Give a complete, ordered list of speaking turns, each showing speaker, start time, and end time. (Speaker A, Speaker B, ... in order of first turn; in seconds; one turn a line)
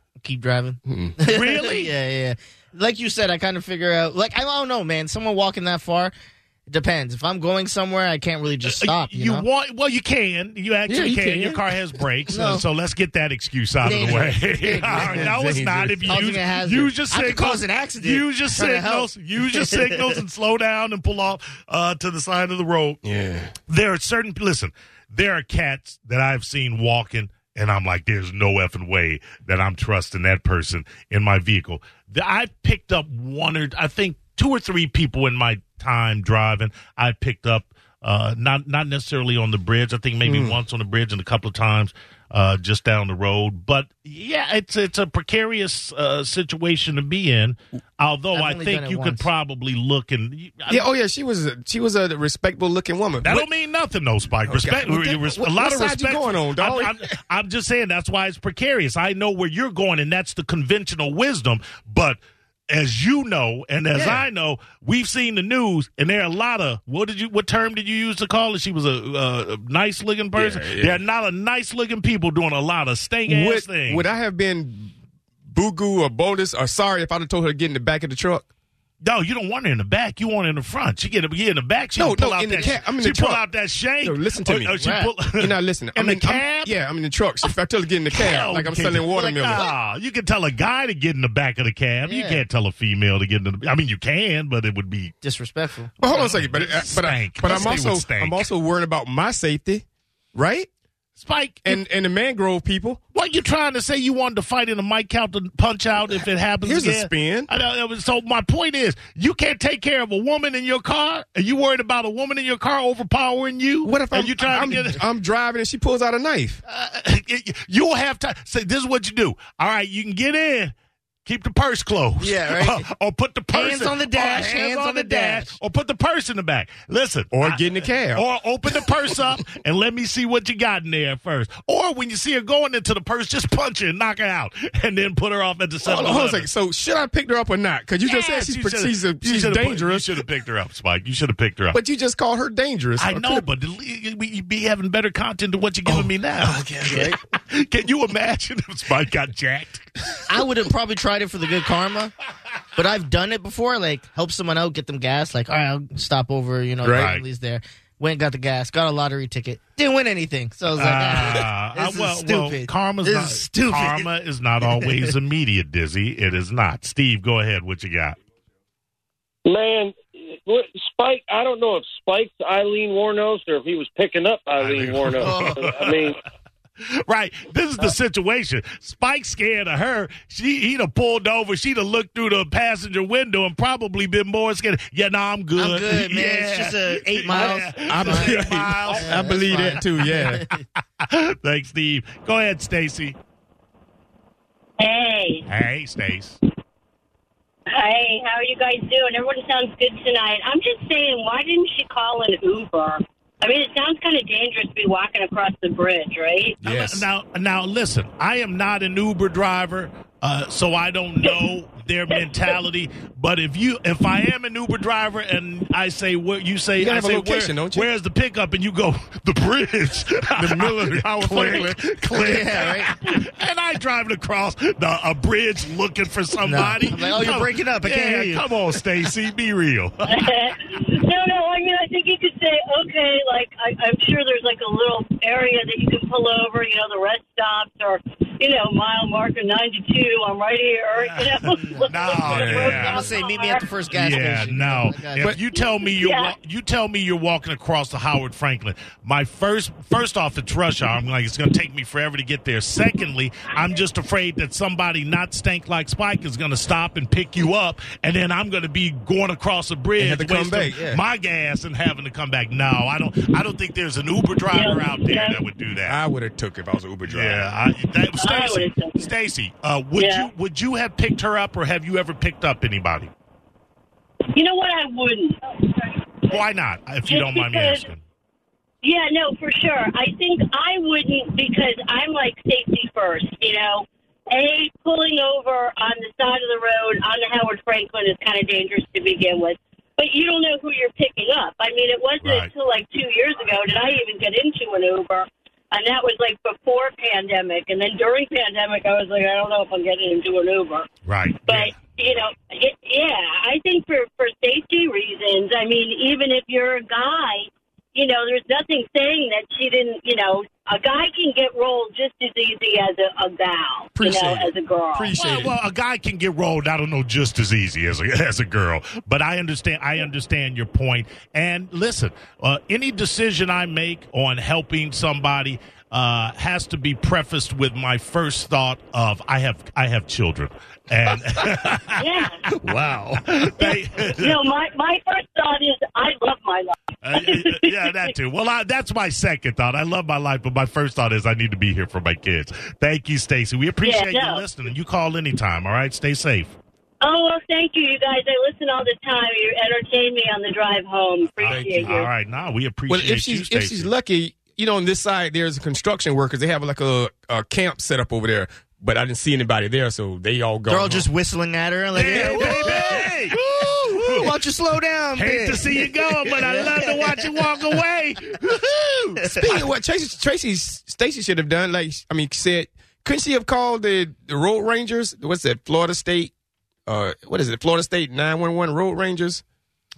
Speaker A: 0.2-6.1
Speaker B: 0.8-1.2
Speaker C: 1.2-1.9
Speaker A: 6.7-9.5
Speaker C: 8.7-23.0
Speaker B: 10.9-11.7
Speaker A: 12.3-12.6
Speaker A: 13.8-15.3
Speaker B: 13.9-16.3
Speaker A: 16.1-20.2
Speaker B: 23.0-23.6
Speaker C: 23.7-50.8
Speaker B: 40.2-40.6
Speaker A: 48.3-49.3
Speaker B: 50.7-53.5
Speaker C: 53.2-74.0
Speaker B: 54.4-57.1
Speaker B: 70.3-71.0
Speaker B: 73.2-74.9
Speaker B: 75.5-78.5
Speaker C: 79.0-86.7
Speaker B: 82.0-83.4
Speaker B: 84.0-84.8
Speaker A: 84.8-85.1
Speaker B: 85.3-89.7
Speaker C: 88.1-95.1
Speaker A: 92.0-92.4
Speaker A: 95.2-95.9
Speaker B: 96.0-100.7
Speaker C: 96.0-98.4
Speaker C: 101.2-101.8
Speaker B: 101.6-103.0
Speaker C: 103.1-115.0
Speaker B: 106.6-107.5
Speaker B: 113.8-116.6
Speaker C: 116.7-120.7
Speaker C: 121.2-127.6
Speaker A: 122.2-122.9
Speaker A: 123.5-125.5
Speaker B: 127.3-128.2
Speaker C: 128.1-136.5
Speaker B: 128.8-129.2
Speaker B: 135.8-140.2
Speaker C: 138.0-141.8
Speaker B: 141.7-143.5
Speaker C: 143.0-150.2
Speaker B: 145.8-147.2
Speaker A: 150.3-152.1
Speaker A: 152.7-164.1
Speaker B: 156.8-157.1
Speaker C: 156.9-157.2
Speaker C: 160.7-168.2
Speaker A: 164.6-165.1
Speaker D: 169.4-176.2
Speaker C: 174.6-176.1
Speaker A: 175.2-175.6
Speaker C: 177.0-189.7
Speaker A: 185.6-190.5
Speaker B: 187.3-190.4
Speaker C: 191.0-193.2
Speaker E: 194.8-195.5
Speaker C: 195.4-196.4
Speaker E: 197.7-206.6
Speaker B: 206.6-207.1
Speaker C: 206.6-230.3
Speaker E: 212.3-212.5
Speaker B: 216.8-217.9
Speaker B: 220.3-222.4
Speaker A: 222.1-222.9
Speaker A: 226.4-228.4
Speaker E: 230.0-243.7
Speaker C: 241.0-243.1
Speaker A: 241.5-245.4
Speaker B: 242.2-242.9
Speaker C: 243.9-266.0
Speaker E: 245.5-246.3
Speaker B: 260.0-261.0
Speaker E: 264.5-265.4
Speaker B: 265.9-267.5
Speaker C: 267.1-273.1
Speaker E: 268.2-269.1
Speaker E: 270.0-270.3
Speaker E: 274.3-276.4
Speaker C: 276.3-278.0
Speaker E: 277.1-277.9
Speaker E: 278.8-300.9
Speaker C: 292.2-292.5
Speaker C: 301.0-301.7
Speaker E: 301.5-315.1
Speaker B: 314.0-315.6
Speaker C: 315.1-334.4
Speaker E: 331.9-332.4
Speaker E: 333.6-338.1
Speaker C: 337.0-346.6
Speaker E: 343.8-344.4
Speaker E: 347.0-352.1
Speaker C: 351.4-353.9
Speaker B: 351.4-351.9
Speaker B: 352.9-361.1
Speaker A: 360.7-363.4
Speaker C: 361.9-364.3
Speaker B: 362.0-364.3
Speaker A: 363.9-367.4
Speaker C: 365.1-369.6
Speaker B: 369.2-376.3
Speaker B: 376.9-379.4